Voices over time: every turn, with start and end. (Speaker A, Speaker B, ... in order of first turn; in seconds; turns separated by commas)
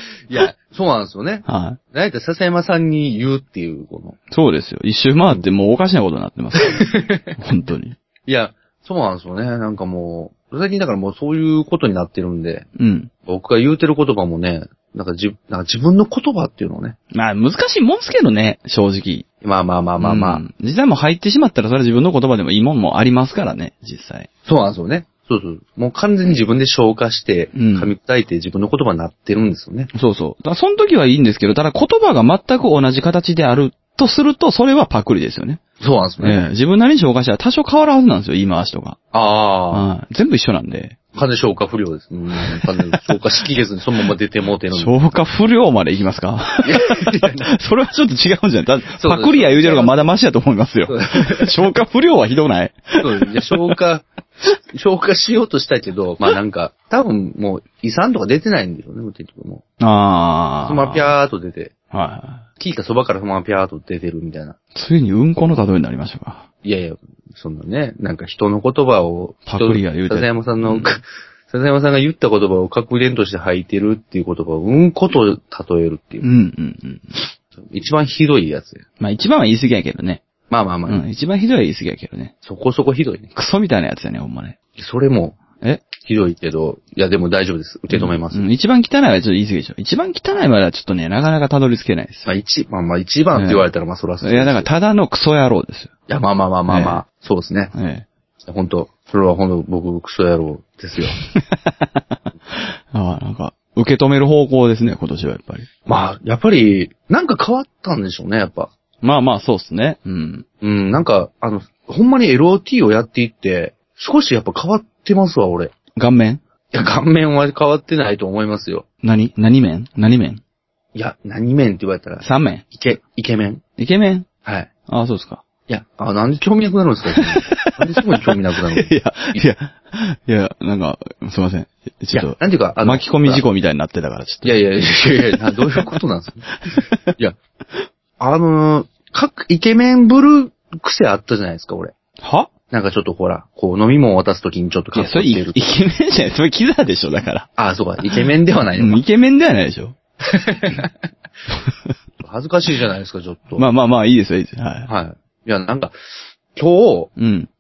Speaker A: 0.3-4.2, Speaker B: 1.4-1.8, Speaker B: 4.3-8.0, Speaker A: 6.7-7.3, Speaker A: 8.3-12.7, Speaker B: 12.8-13.1, Speaker A: 13.2-17.0, Speaker B: 17.1-19.2, Speaker A: 19.4-20.4, Speaker B: 20.0-24.3, Speaker A: 24.4-29.9, Speaker B: 27.5-27.9, Speaker B: 29.9-35.6, Speaker A: 35.8-36.4, Speaker B: 36.2-39.0, Speaker A: 39.1-39.8, Speaker B: 39.7-41.0, Speaker A: 41.1-45.0, Speaker B: 42.5-43.0, Speaker B: 44.7-53.7, Speaker A: 46.6-47.5, Speaker A: 49.0-50.1, Speaker A: 50.9-51.6, Speaker A: 53.0-54.1, Speaker A: 54.6-59.6, Speaker B: 59.8-61.1, Speaker A: 60.6-61.7, Speaker B: 61.9-62.5, Speaker A: 62.6-64.5, Speaker B: 64.7-66.5, Speaker A: 66.6-76.2, Speaker B: 69.5-71.0, Speaker B: 76.2-77.2, Speaker A: 77.6-78.8, Speaker B: 79.0-80.2, Speaker A: 80.5-81.0, Speaker B: 80.9-82.3, Speaker A: 82.4-83.3, Speaker B: 83.3-84.5, Speaker A: 84.8-85.4, Speaker B: 85.6-85.9, Speaker A: 86.0-88.4, Speaker B: 87.9-92.3, Speaker A: 92.2-94.7, Speaker B: 93.3-93.7, Speaker B: 94.2-95.9, Speaker A: 96.1-97.7, Speaker B: 96.7-97.0, Speaker B: 97.7-98.1, Speaker A: 98.4-101.2, Speaker B: 101.1-105.7, Speaker A: 105.8-108.7, Speaker B: 109.0-110.5, Speaker A: 110.6-115.7, Speaker B: 116.0-116.4, Speaker A: 116.7-118.8, Speaker B: 119.0-120.4, Speaker A: 120.9-123.6, Speaker B: 122.2-122.6, Speaker B: 123.8-124.3, Speaker A: 124.4-124.7, Speaker B: 124.9-125.4, Speaker A: 125.7-129.4, Speaker B: 127.2-134.6, Speaker A: 132.1-133.4, Speaker A: 134.4-136.5, Speaker A: 138.2-141.9, Speaker B: 142.2-142.5, Speaker A: 142.7-145.6, Speaker B: 144.9-147.5, Speaker A: 147.6-149.0, Speaker B: 148.8-149.9, Speaker A: 150.2-150.9, Speaker A: 152.2-153.6, Speaker B: 153.6-154.9, Speaker A: 154.9-155.9, Speaker A: 156.5-157.1, Speaker B: 157.2-157.5